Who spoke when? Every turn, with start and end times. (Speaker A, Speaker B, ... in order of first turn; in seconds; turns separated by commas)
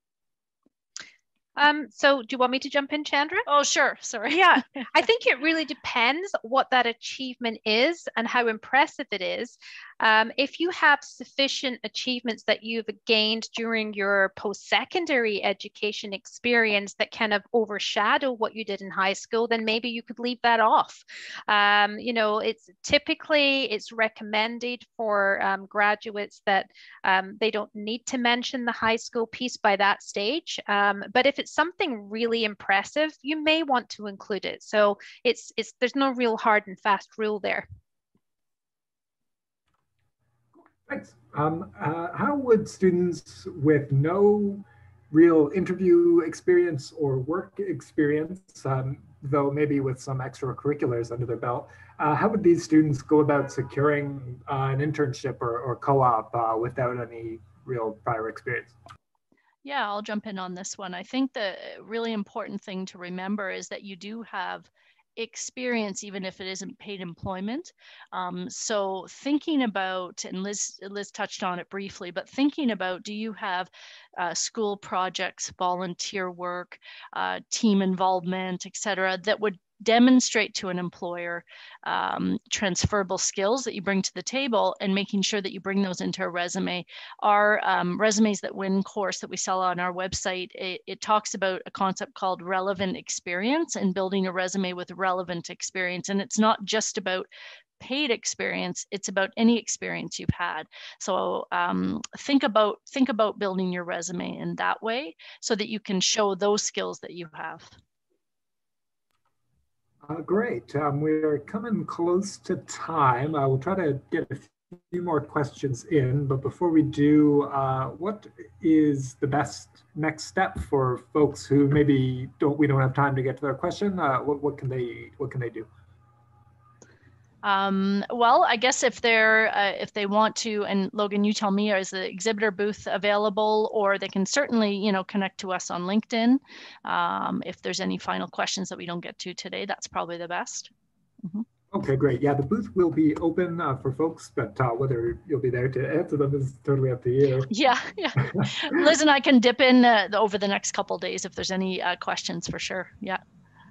Speaker A: 1.6-3.5, Speaker B: 3.5-4.8, Speaker A: 4.3-37.6, Speaker C: 40.9-58.8, Speaker B: 59.6-107.7, Speaker C: 110.0-125.7, Speaker B: 127.4-140.7, Speaker C: 141.7-147.5, Speaker B: 147.5-153.2